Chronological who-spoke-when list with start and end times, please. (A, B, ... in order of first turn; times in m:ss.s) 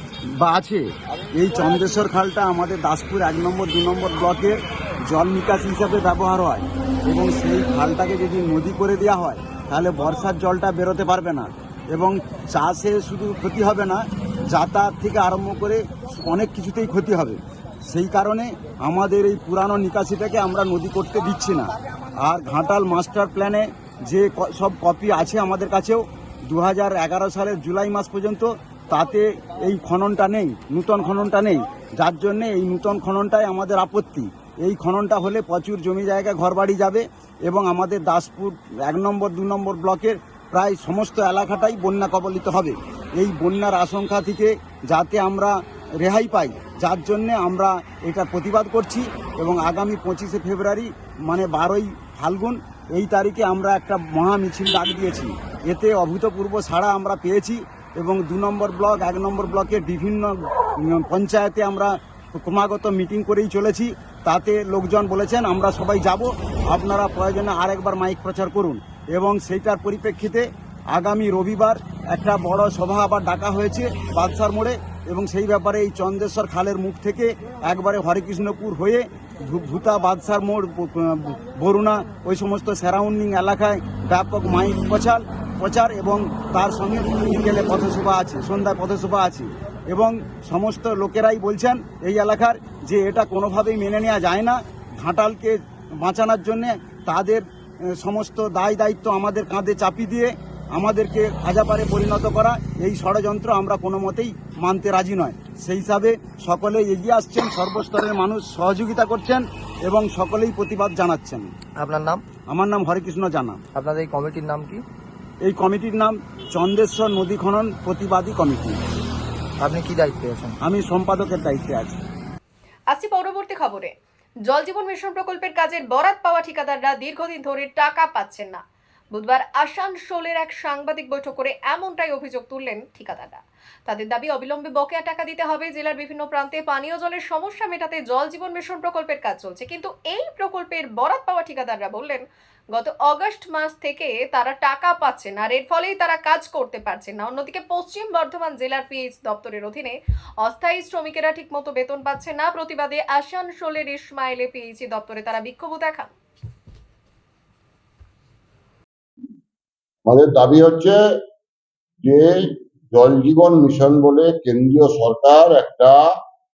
0:00.4-1:51.5 A
1:51.8-1:52.2 B
1:52.5-1:53.6 A
1:53.7-1:54.8 B
1:55.4-1:58.8 A
1:59.6-2:00.5 B
2:00.6-2:02.0 A
2:02.9-2:03.9 C
2:04.5-2:08.6 C
2:09.1-2:36.1 C
2:40.0-2:41.0 D
2:42.0-2:46.0 D